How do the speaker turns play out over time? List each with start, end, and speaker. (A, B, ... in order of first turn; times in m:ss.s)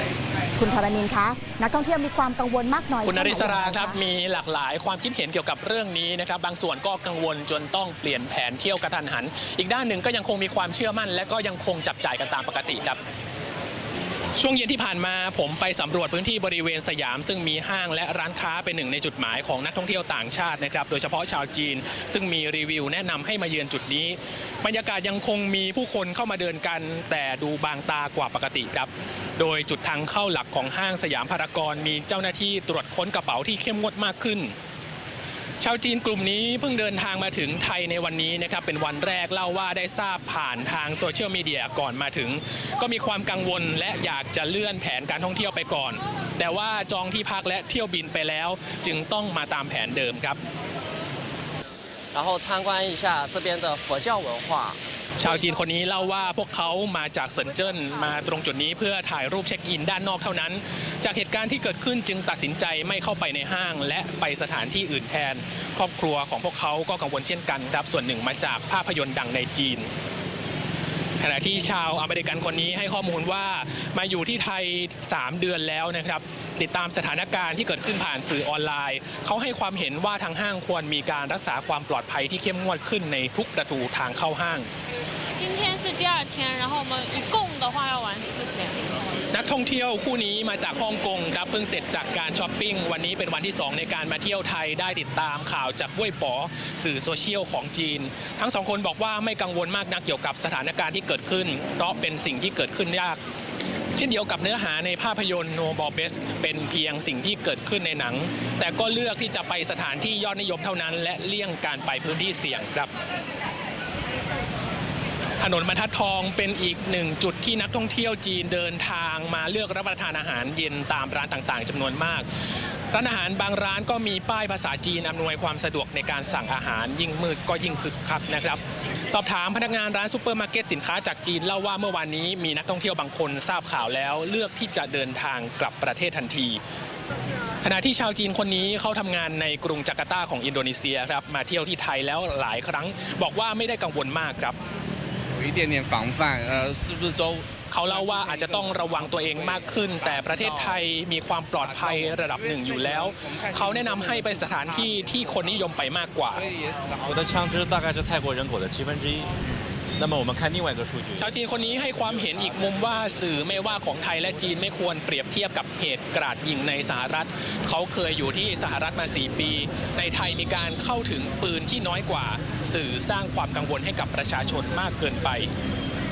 0:00.6-0:04.0 A
0:03.0-0:13.0 B
0:14.4-0:34.5 B
0:35.6-0:50.4 B
0:52.1-0:54.8 C
0:55.2-1:09.9 B
1:11.2-1:24.7 B
1:25.4-1:29.2 D
1:29.3-1:43.2 B
1:44.0-1:52.9 B
1:55.4-2:02.2 B
2:02.9-2:16.6 B
2:17.6-2:24.6 B
2:25.4-2:30.9 E
2:27.7-2:36.4 B
2:31.6-2:35.7 E
2:36.3-2:37.3 E
2:37.0-2:39.3 F
2:40.0-2:41.3 F
2:41.2-2:55.5 B